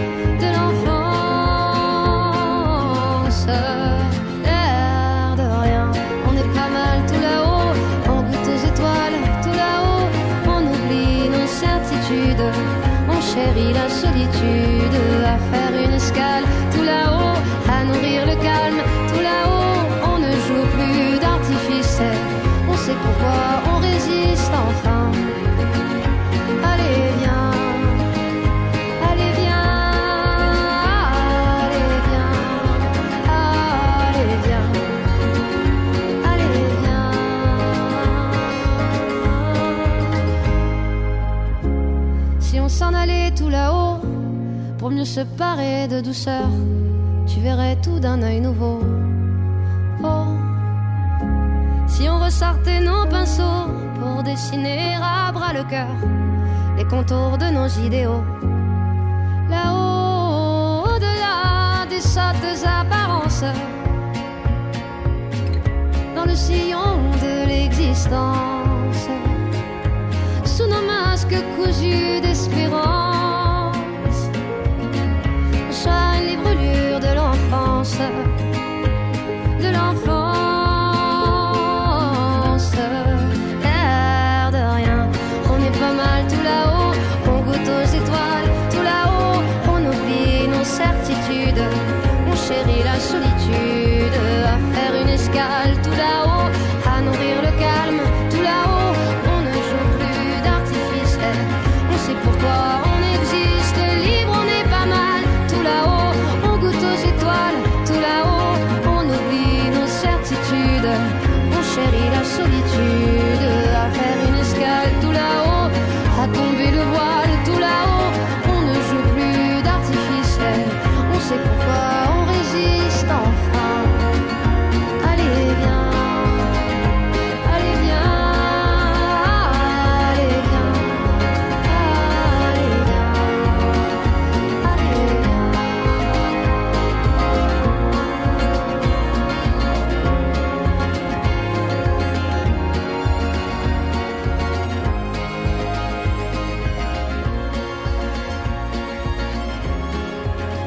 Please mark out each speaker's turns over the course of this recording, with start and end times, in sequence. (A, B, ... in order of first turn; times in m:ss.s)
0:00.4-0:25.3 A
0:26.6-0:28.1 A
0:29.0-0:34.9 A
0:36.2-0:40.2 A
0:42.4-0:44.1 A
0:44.8-0:46.6 A
0:47.3-0:49.1 A
0:50.0-0:50.6 A
0:51.9-0:56.0 A
0:56.8-0:58.3 A
0:59.5-1:03.8 A
1:06.1-1:09.4 A
1:10.4-1:14.3 A
1:15.7-1:18.3 A
1:19.6-2:04.1 A
2:05.0-2:06.7 A
2:07.4-2:13.8 A
2:14.6-2:16.1 A